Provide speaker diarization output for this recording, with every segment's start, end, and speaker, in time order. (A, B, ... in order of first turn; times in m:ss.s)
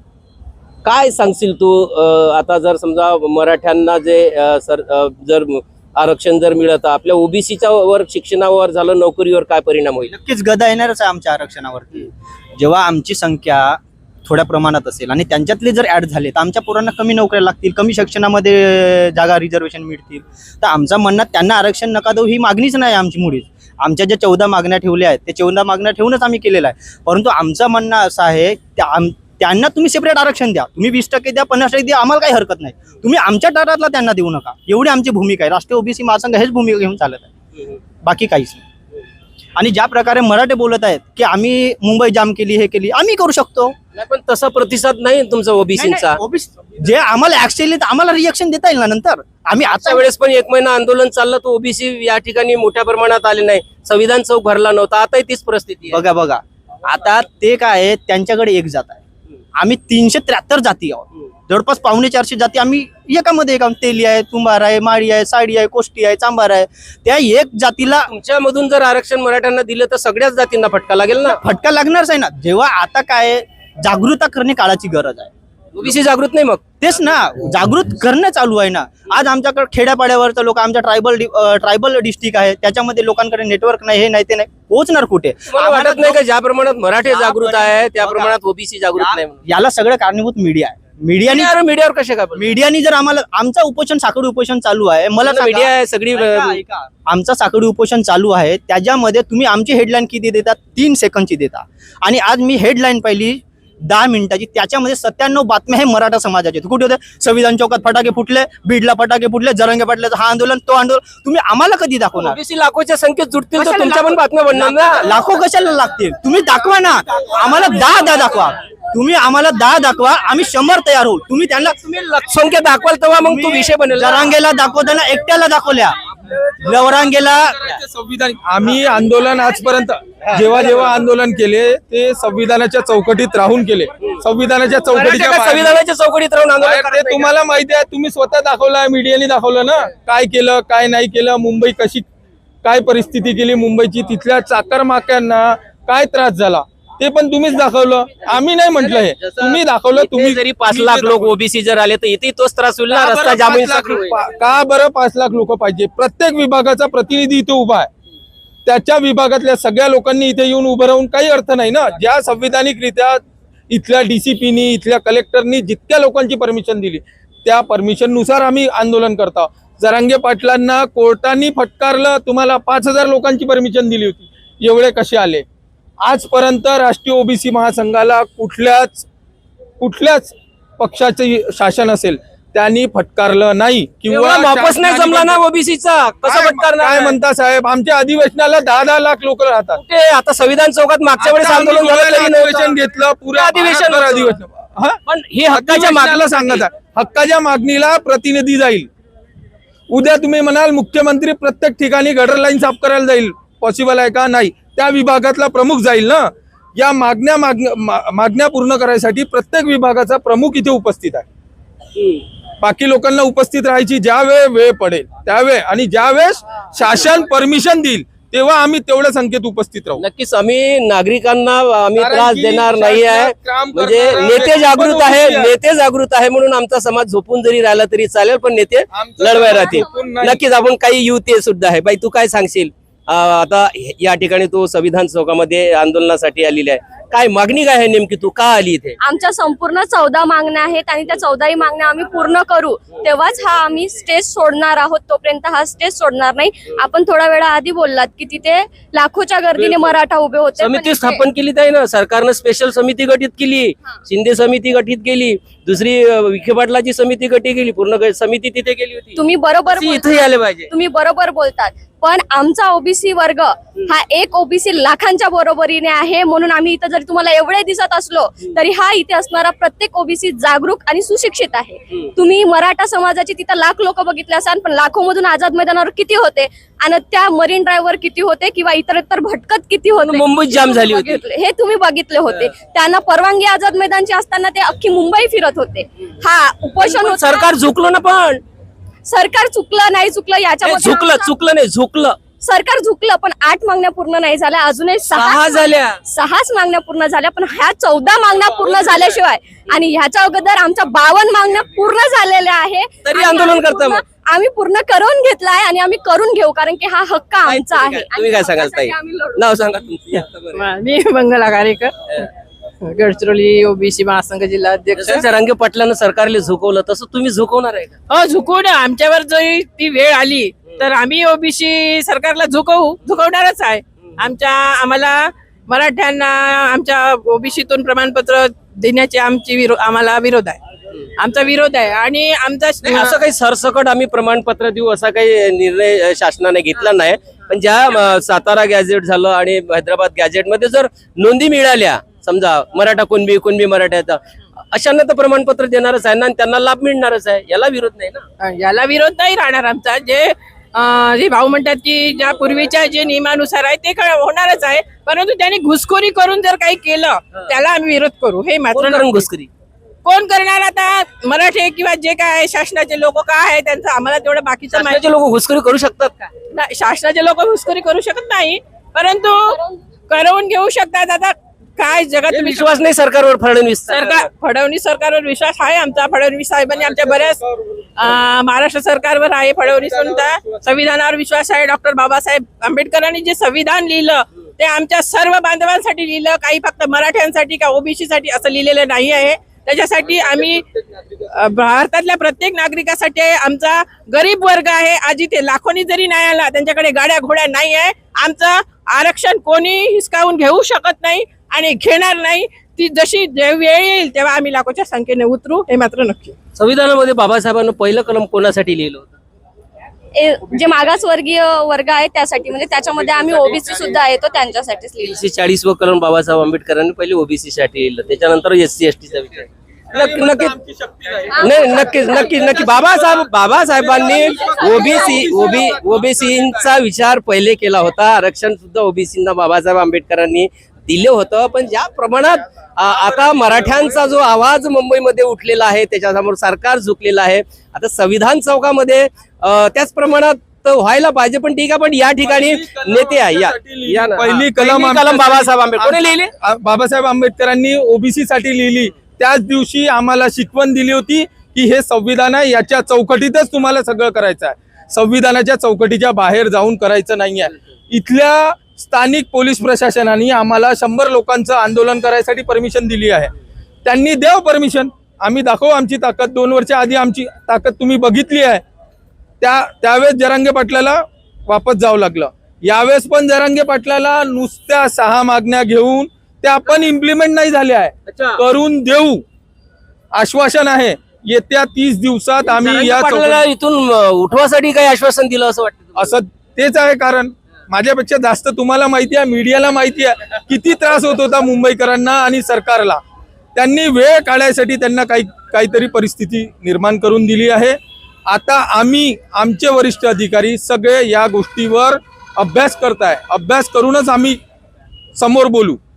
0:00.8-0:10.1 A
0:10.1-0:37.3 B
0:38.0-0:38.6 B
0:39.6-0:43.8 B
0:43.9-0:46.2 A
0:45.8-0:50.1 B
0:49.6-0:56.0 A
0:55.9-0:59.0 B
0:59.6-1:08.1 B
1:08.1-1:11.4 A
1:11.3-1:15.3 B
1:15.8-1:16.8 A
1:16.8-1:26.2 B
1:25.5-1:29.4 A
1:27.0-1:28.3 B
1:29.0-1:31.5 B
1:31.3-1:32.5 A
1:32.4-1:52.4 B
1:35.2-1:36.6 A
1:52.2-1:55.1 A
1:53.6-2:01.8 B
2:01.7-2:04.3 A
2:03.2-2:06.0 B
2:06.6-2:07.6 B
2:07.6-2:15.8 C
2:14.9-2:17.3 A
2:16.6-2:22.1 C
2:22.6-2:31.3 C
2:28.8-2:34.1 A
2:32.9-2:37.9 C
2:38.6-2:55.4 C
2:56.0-2:59.1 C
2:59.8-3:05.4 C
3:04.1-3:07.2 A
3:06.2-3:09.8 C
3:09.7-3:12.8 A
3:11.2-3:15.0 C
3:13.3-3:14.4 A
3:15.1-3:16.6 A
3:15.5-3:18.9 C
3:19.9-3:31.2 C
3:32.0-3:32.2 A
3:32.6-3:40.0 C
3:40.0-3:59.0 A
3:42.0-3:45.6 C
3:48.9-3:50.4 C
3:59.0-4:11.2 D
4:09.6-4:10.0 A
4:10.6-4:20.7 A
4:19.2-4:47.5 D
4:40.0-4:41.2 A
4:46.8-4:48.4 A
4:49.0-4:51.3 D
4:50.6-4:52.2 A
4:52.4-5:09.4 D
4:55.1-4:56.0 A
5:03.0-5:04.0 A
5:07.4-5:10.6 A
5:10.6-5:12.3 E
5:12.8-5:15.2 E
5:14.9-5:18.0 A
5:18.1-5:30.6 E
5:31.2-5:33.2 E
5:32.8-5:44.2 A
5:44.7-5:48.2 A
5:48.4-5:59.3 E
5:58.7-5:59.5 A
6:00.0-6:05.0 E
6:04.7-6:06.3 A
6:06.5-6:12.7 E
6:12.3-6:14.3 A
6:13.9-6:30.6 E
6:16.7-6:17.6 C
6:19.7-6:20.6 C
6:31.2-6:46.4 E
6:46.6-6:49.2 A
6:50.2-6:55.2 D
6:52.9-6:54.0 C
6:55.0-7:00.6 A
6:59.9-7:06.7 C
7:01.3-7:02.2 D
7:01.4-7:26.3 A
7:04.4-7:05.4 D
7:22.2-7:43.3 C
7:43.8-7:48.6 C
7:49.4-7:59.2 C
7:58.1-7:58.4 A
8:00.1-8:03.4 C
8:02.5-8:06.2 A
8:06.0-8:13.0 C
8:13.6-8:24.4 C
8:25.2-8:25.8 C